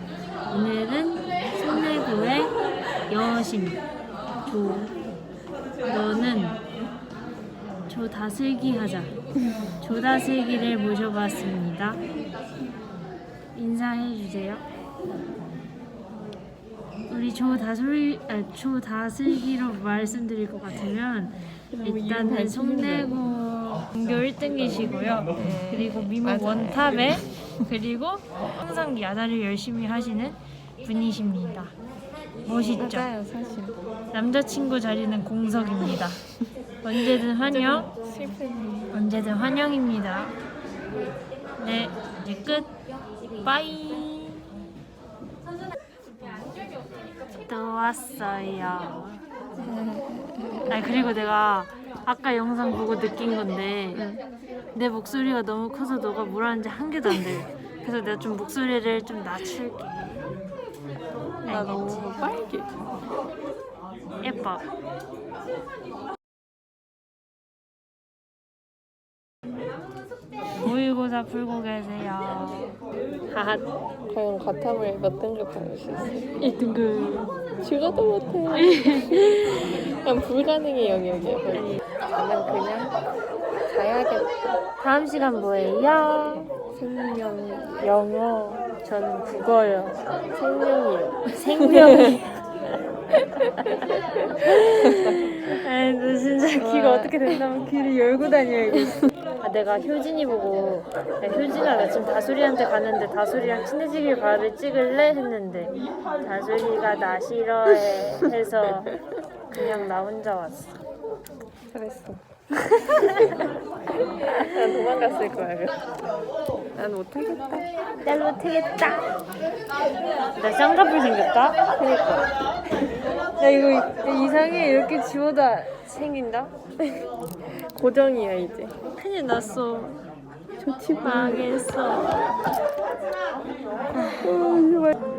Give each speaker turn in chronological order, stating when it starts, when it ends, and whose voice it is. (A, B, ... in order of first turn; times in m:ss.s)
0:00.5-0:02.5 A
0:03.1-0:03.8 A
0:04.5-0:05.0 A
0:05.8-0:06.6 A
0:07.9-0:09.1 A
0:09.8-0:12.0 A
0:13.6-0:14.6 A
0:17.1-0:31.7 A
0:21.7-0:23.2 B
0:25.4-0:27.0 B
0:32.4-0:33.1 A
0:32.8-0:33.8 B
0:34.1-0:36.3 A
0:36.8-0:37.9 A
0:37.4-0:38.9 B
0:38.9-0:40.3 A
0:41.6-0:42.7 A
0:43.4-0:44.4 A
0:47.4-0:49.2 A
0:49.6-0:50.7 B
0:50.7-0:54.1 A
0:54.0-0:54.2 B
0:54.7-1:00.3 A
1:01.4-1:02.8 B
1:01.5-1:02.1 A
1:04.2-1:04.6 A
1:10.6-1:12.8 A
1:13.3-1:13.7 A
1:14.1-1:16.3 B
1:16.4-1:17.3 A
1:17.6-1:23.0 B
1:18.6-1:19.1 A
1:21.5-1:21.8 A
1:23.6-1:24.4 B
1:24.8-1:26.5 A
1:26.7-1:28.3 B
1:28.0-1:30.0 A
1:30.3-1:32.2 B
1:31.3-1:32.4 A
1:33.6-1:35.3 B
1:33.6-1:49.0 A
1:36.6-1:37.4 B
1:49.5-1:50.8 A
1:51.7-1:52.2 B
1:53.0-1:53.4 B
1:54.3-1:55.8 B
1:56.8-1:57.7 B
1:58.0-1:59.1 A
2:00.4-2:01.6 A
2:01.8-2:02.3 B
2:03.4-2:06.5 A
2:06.8-2:08.8 B
2:09.0-2:10.0 A
2:10.6-2:11.5 B
2:11.0-2:12.2 A
2:13.9-2:14.3 A
2:14.2-2:15.0 B